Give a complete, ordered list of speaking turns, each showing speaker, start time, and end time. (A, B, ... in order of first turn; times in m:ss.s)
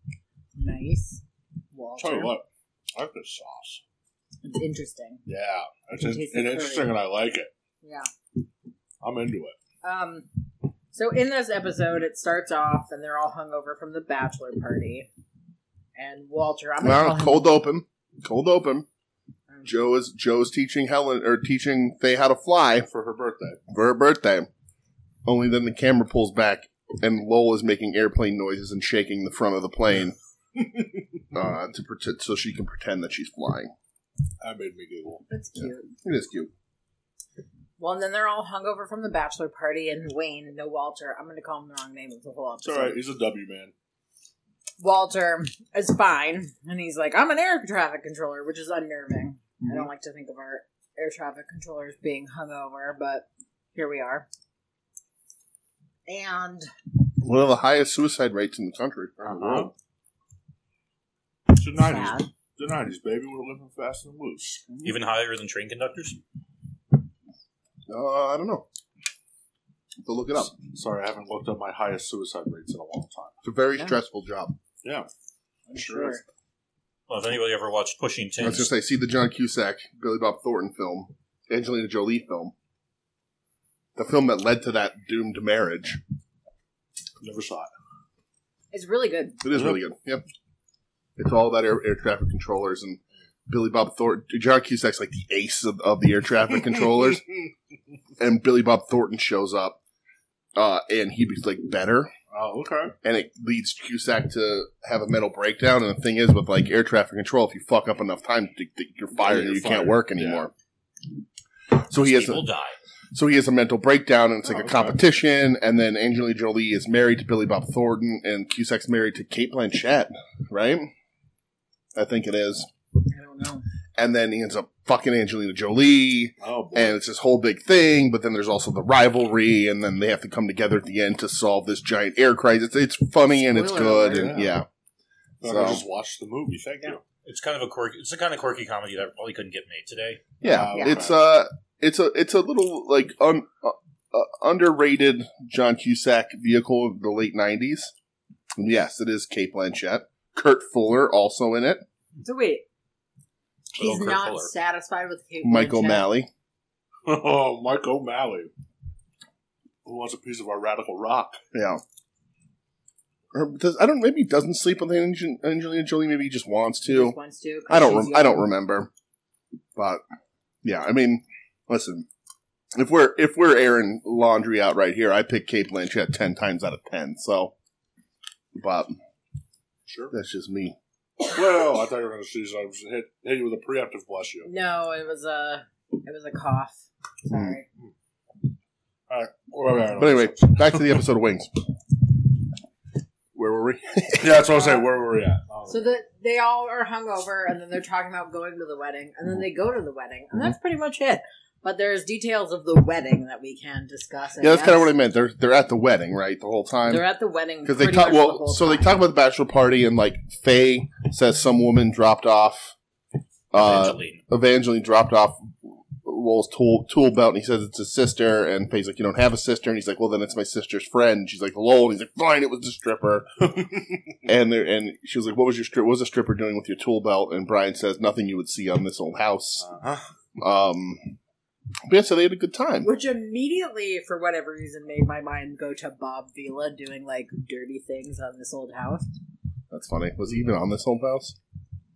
0:00.6-0:01.2 A
0:01.7-0:02.4 A
0:02.0-0:03.8 B
0:04.4-0:05.2 A
0:05.2-0:07.5 B
0:06.0-0:06.9 A
0:07.8-0:08.1 A
0:09.0-0:09.5 B
0:09.8-0:10.3 A
0:10.9-0:15.1 A
0:16.0-0:17.5 A
0:16.8-0:18.8 C
0:19.6-0:22.9 C
0:22.8-0:23.6 B
0:23.7-0:24.5 C
0:25.2-0:30.1 C
0:30.6-0:31.0 B
0:31.3-0:33.7 C
0:34.4-0:35.2 B
0:35.3-0:35.9 A
0:35.6-0:36.5 C
0:37.8-0:43.0 A
0:42.6-0:43.7 B
0:44.8-0:54.2 A
0:49.6-0:49.9 C
0:56.1-0:56.7 A
0:57.2-0:59.7 C
0:59.2-0:59.7 B
1:01.6-1:04.6 B
1:01.7-1:02.3 A
1:04.8-1:06.2 D
1:07.9-1:08.6 C
1:10.0-1:10.5 C
1:10.6-1:13.4 B
1:13.4-1:14.6 C
1:14.8-1:15.1 B
1:15.7-1:16.2 A
1:15.7-1:16.2 B
1:17.1-1:18.7 D
1:18.4-1:22.5 C
1:24.0-1:26.0 C
1:27.2-1:27.7 B
1:28.7-1:29.4 A
1:29.4-1:30.2 C
1:29.5-1:29.8 B
1:31.2-1:37.2 C
1:38.2-1:39.8 C
1:40.6-1:42.1 C
1:42.3-1:42.9 B
1:43.0-1:50.5 C
1:49.2-1:50.5 B
1:51.8-1:52.4 C
1:51.9-1:52.8 D
1:53.1-2:00.9 C
1:54.4-1:54.9 B
2:01.9-2:02.7 C
2:03.1-2:03.6 A
2:04.0-2:14.6 C
2:06.4-2:07.0 B
2:13.5-2:14.4 A
2:13.5-2:14.6 B
2:15.4-2:17.0 B
2:15.4-2:15.8 C
2:17.2-2:20.3 D
2:20.4-2:27.9 C
2:20.4-2:21.2 B
2:28.6-2:31.8 C
2:32.2-2:32.6 A
2:33.7-2:34.5 D
2:33.7-2:36.1 A
2:35.4-2:36.3 C
2:37.0-2:38.5 B
2:39.8-2:41.4 B
2:41.5-2:41.8 C
2:43.3-2:47.2 C
2:46.8-2:48.5 A
2:47.7-2:48.9 C
2:49.8-2:50.0 C
2:50.6-2:52.0 C
2:52.7-2:57.5 C
2:58.5-2:59.0 C
2:59.9-3:00.1 B
3:00.1-3:00.8 C
3:01.3-3:04.5 B
3:04.4-3:07.6 A
3:07.3-3:07.6 C
3:09.1-3:11.0 B
3:10.0-3:11.5 C
3:13.3-3:14.6 C
3:14.2-3:15.8 B
3:15.7-3:24.9 A
3:24.4-3:27.0 C
3:26.8-3:28.9 A
3:27.6-3:32.7 C
3:33.5-3:43.3 C
3:33.5-3:34.2 D
3:43.4-3:44.1 B
3:44.2-3:49.6 C
3:49.6-3:50.0 B
3:50.4-3:51.1 C
3:51.9-3:52.9 C
3:52.8-3:59.0 A
3:59.7-4:01.4 C